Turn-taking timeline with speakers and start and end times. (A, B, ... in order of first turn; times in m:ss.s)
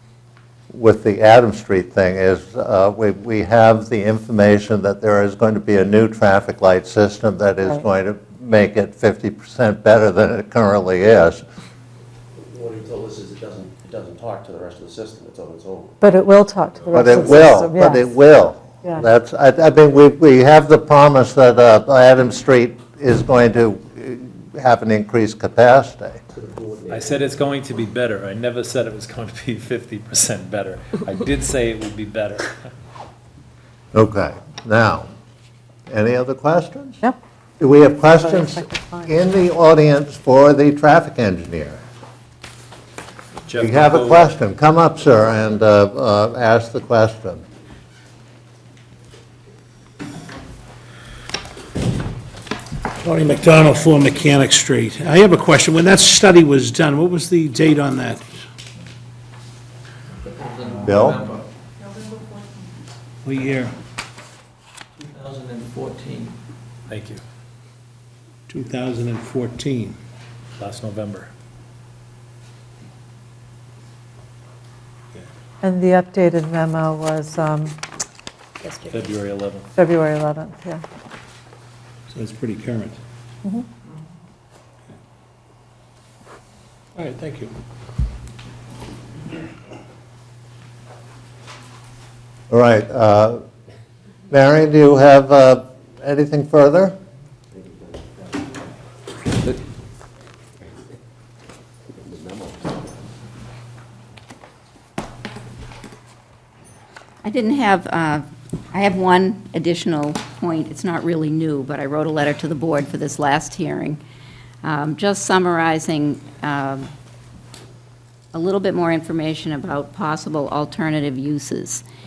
0:00.7-0:11.4 A
0:12.4-0:16.0 B
0:16.0-0:18.2 C
0:16.9-0:26.2 A
0:26.3-0:27.4 B
0:26.9-0:32.6 D
0:33.9-0:35.1 A
0:35.9-0:37.0 A
0:37.6-0:41.8 A
0:38.2-0:39.1 C
0:43.5-0:44.3 D
0:43.6-0:47.4 A
0:53.0-0:58.3 E
1:00.2-1:01.5 F
1:00.8-1:01.2 A
1:03.2-1:03.8 E
1:05.0-1:06.4 F
1:06.9-1:07.2 D
1:08.5-1:10.0 E
1:10.6-1:11.3 D
1:15.6-1:17.8 C
1:18.6-1:19.0 G
1:18.9-1:19.7 D
1:19.8-1:20.8 C
1:22.1-1:23.0 E
1:27.0-1:27.5 E
1:32.5-1:33.4 A
1:34.3-1:37.0 A
1:37.5-1:38.6 B
1:41.9-1:42.8 B
1:47.2-1:54.0 G
1:54.6-1:56.9 G
1:58.3-2:01.8 G